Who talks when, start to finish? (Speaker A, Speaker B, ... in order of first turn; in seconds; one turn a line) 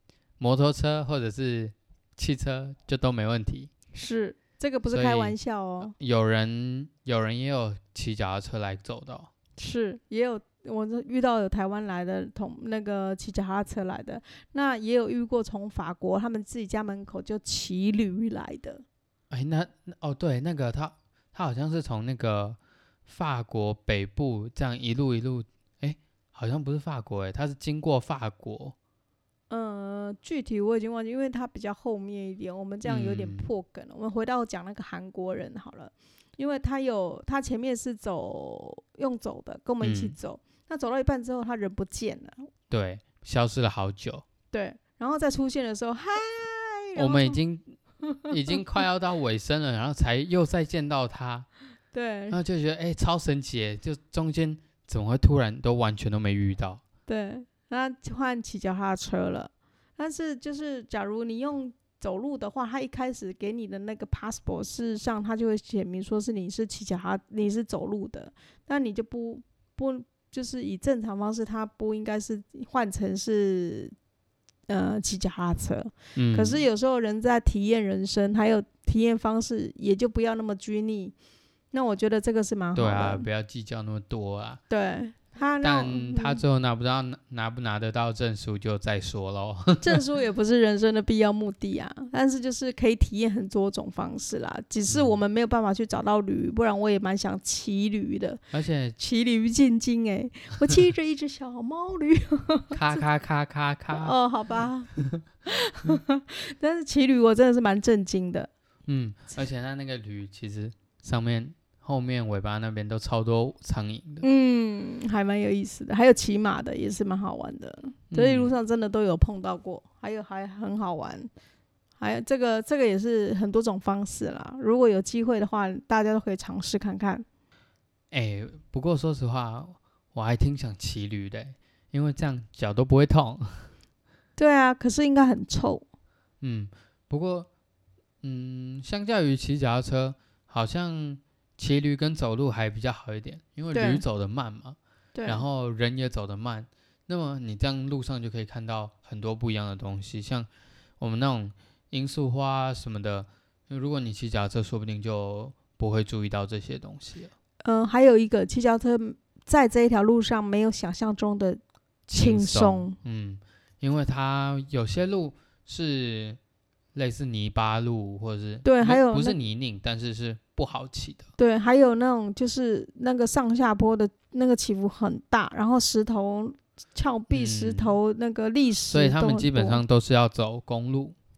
Speaker A: 0.4-3.7
Speaker B: 3.9-5.9
Speaker A: 4.9-9.3
Speaker B: 9.6-18.8
Speaker A: 19.3-28.7
Speaker B: 29.5-42.5
Speaker A: 32.8-33.5
Speaker A: 39.8-40.1
Speaker A: 42.7-44.2
Speaker B: 44.5-47.4
Speaker A: 47.0-51.5
Speaker B: 51.9-52.4
Speaker A: 52.3-56.8
Speaker B: 57.1-73.9
Speaker B: 74.7-81.1
Speaker A: 76.2-76.6
Speaker B: 81.7-83.3
Speaker A: 82.7-84.6
Speaker B: 84.7-86.4
Speaker A: 85.6-90.0
Speaker B: 89.8-98.4
Speaker A: 94.9-95.1
Speaker A: 98.5-99.0
Speaker B: 99.0-103.0
Speaker A: 102.7-104.1
Speaker B: 103.9-104.9
Speaker B: 105.5-108.5
Speaker A: 108.9-114.2
Speaker B: 114.2-121.3
Speaker A: 118.1-118.5
Speaker B: 122.0-127.2
Speaker A: 128.1-133.7
Speaker B: 134.4-135.8
Speaker A: 136.4-137.5
Speaker A: 138.2-150.5
Speaker B: 143.7-144.0
Speaker B: 145.1-145.4
Speaker A: 151.0-157.3
Speaker B: 157.6-161.6
Speaker A: 162.1-166.4
Speaker B: 162.1-162.9
Speaker A: 166.9-171.3
Speaker B: 168.6-169.4
Speaker B: 171.4-179.8
Speaker A: 177.3-178.0
Speaker A: 178.9-181.1